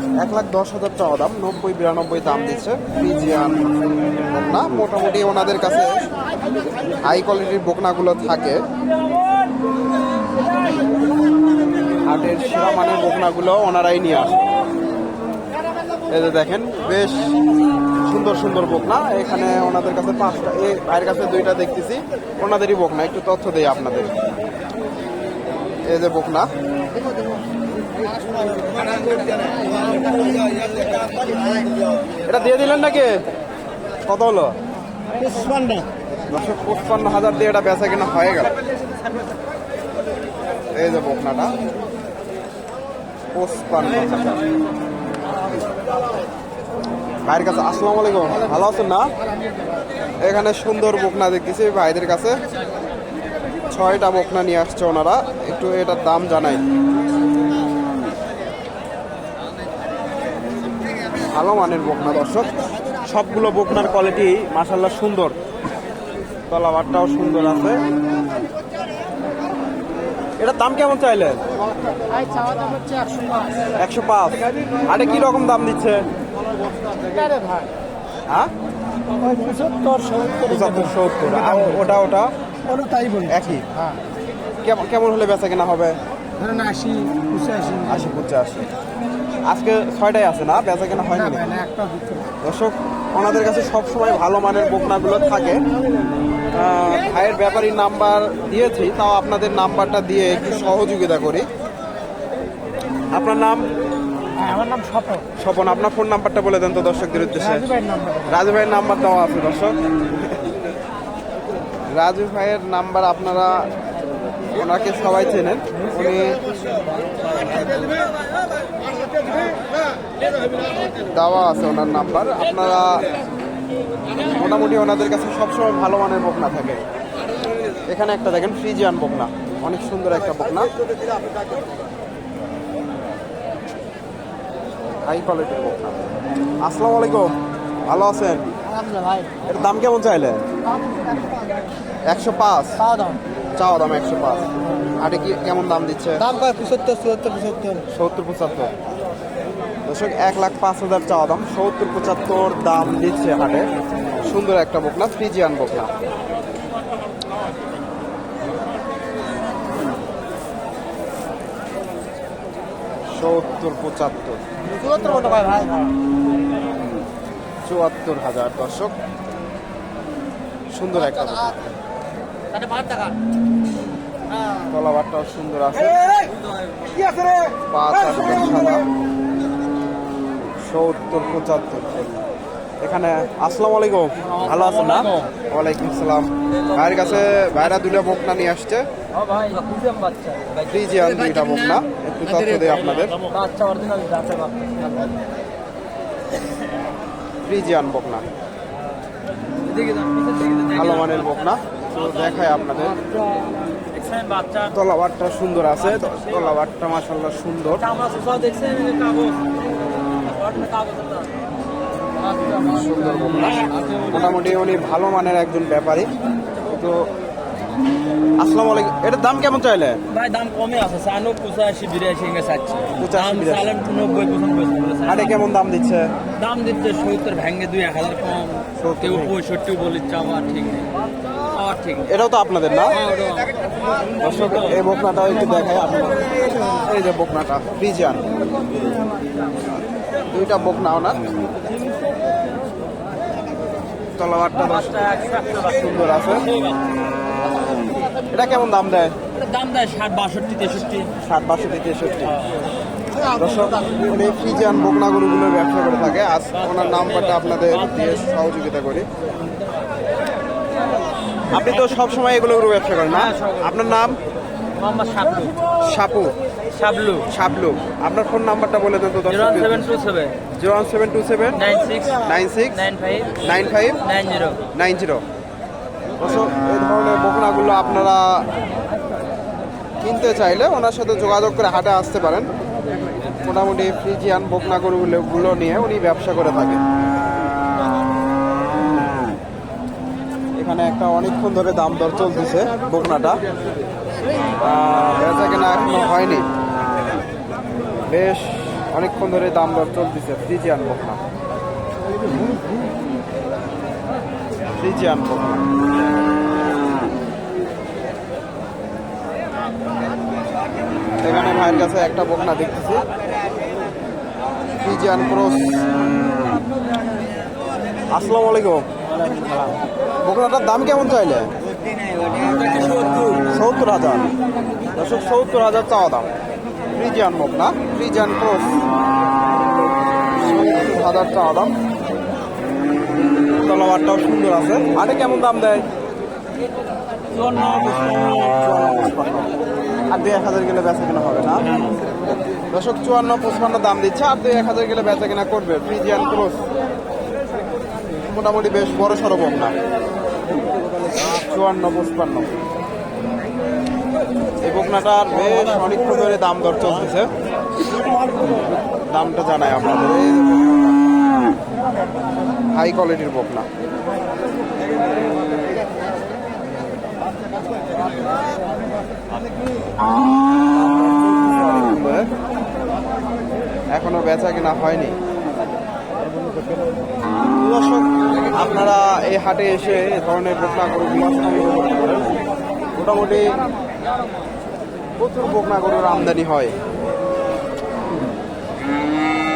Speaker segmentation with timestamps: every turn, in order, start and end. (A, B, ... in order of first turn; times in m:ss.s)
0:00.2-0:03.7 A
0:04.3-0:06.0 A
0:07.0-0:08.6 A
0:12.0-0:14.4 A
0:16.1-0:17.3 A
0:18.0-0:24.1 A
0:25.8-0:26.5 A
0:29.4-0:29.7 B
0:32.2-0:33.2 A
0:34.0-0:34.5 A
0:35.2-0:35.9 B
0:36.3-0:38.5 A
0:40.7-0:41.5 A
0:43.3-0:44.3 A
0:47.2-0:49.1 A
0:50.2-0:52.4 A
0:53.7-0:56.6 A
1:01.3-1:02.5 A
1:03.0-1:05.3 A
1:06.5-1:07.8 A
1:10.4-1:11.4 A
1:12.2-1:13.4 B
1:13.8-1:16.0 A
1:17.1-1:17.7 B
1:19.2-1:20.6 B
1:20.4-1:22.3 A
1:22.7-1:23.3 B
1:23.3-1:23.6 A
1:24.6-1:26.0 A
1:26.4-1:27.8 B
1:27.8-1:28.7 A
1:29.5-1:31.6 A
1:31.6-1:32.2 B
1:32.4-1:35.6 A
1:36.5-1:41.5 A
1:43.1-1:43.6 A
1:44.4-1:45.2 B
1:45.4-1:49.8 A
1:47.8-1:48.2 B
1:51.9-1:53.7 A
1:54.5-1:56.4 A
1:56.7-1:58.0 B
2:01.1-2:03.0 A
2:04.2-2:06.8 A
2:07.9-2:10.7 A
2:14.9-2:16.1 A
2:16.6-2:17.3 A
2:17.9-2:18.5 A
2:18.7-2:19.4 B
2:19.4-2:20.4 A
2:22.0-2:22.8 A
2:22.9-2:23.2 B
2:23.6-2:26.3 A
2:26.3-2:27.8 B
2:27.9-2:28.7 A
2:29.8-2:33.6 A
2:34.2-2:35.9 A
2:43.1-2:44.4 A
2:44.8-2:45.8 B
2:47.6-2:48.9 A
2:50.7-2:51.7 A
2:52.6-2:53.0 B
2:54.7-2:56.3 A
2:57.7-2:58.8 A
3:00.6-3:02.1 A
3:02.8-3:08.8 A
3:04.2-3:05.3 B
3:06.5-3:08.0 B
3:09.1-3:10.9 B
3:10.7-3:13.3 A
3:13.2-3:15.1 B
3:17.4-3:18.2 A
3:19.6-3:22.2 B
3:20.7-3:23.0 A
3:23.0-3:24.7 B
3:24.7-3:27.8 A
3:25.8-3:26.5 B
3:27.8-3:29.5 B
3:30.2-3:31.3 B
3:32.2-3:34.5 B
3:32.6-3:36.1 A
3:36.7-3:37.1 A
3:38.4-3:40.0 A
3:40.1-3:45.4 B
3:43.0-3:43.7 A
3:45.0-3:46.1 A
3:46.4-3:50.9 B
3:48.8-3:49.3 A
3:51.5-3:52.1 B
3:52.0-3:53.0 A
3:52.9-3:53.5 B
3:54.2-3:54.8 B
3:54.2-3:58.2 A
4:00.3-4:01.2 A
4:04.2-4:06.5 A
4:04.5-4:06.8 B
4:08.3-4:09.2 A
4:09.3-4:11.1 B
4:11.2-4:12.4 A
4:13.3-4:19.1 A
4:16.5-4:18.3 B
4:21.5-4:24.2 A
4:23.1-4:23.9 B
4:24.8-4:25.6 B
4:25.8-4:26.4 A
4:26.7-4:27.3 B
4:27.3-4:29.9 A
4:29.3-4:30.4 B
4:30.6-4:31.6 A
4:31.6-4:33.4 B
4:32.2-4:32.8 A
4:33.4-4:34.0 A
4:34.0-4:34.6 B
4:34.7-4:35.2 A
4:36.2-4:38.4 A
4:40.0-4:42.5 A
4:43.4-4:46.8 A
4:50.6-4:53.4 A
4:54.6-4:56.4 A
4:58.1-5:01.2 A
5:04.8-5:05.6 A
5:11.2-5:13.0 A
5:14.8-5:15.7 A
5:18.1-5:18.8 A
5:19.2-5:19.7 B
5:20.2-5:21.5 A
5:22.0-5:23.4 B
5:23.4-5:24.3 A
5:24.9-5:26.3 A
5:26.9-5:28.8 A
5:30.3-5:31.7 A
5:33.6-5:35.8 A
5:37.4-5:38.0 B
5:38.2-5:39.5 A
5:40.1-5:41.6 A
5:42.7-5:46.6 A
5:48.3-5:49.7 A
5:51.2-5:52.5 A
5:54.6-5:57.3 A
5:59.1-6:00.8 A
6:02.7-6:03.7 A
6:11.5-6:12.3 A
6:13.9-6:15.2 A
6:17.6-6:22.4 A
6:23.0-6:23.6 A
6:25.2-6:26.7 A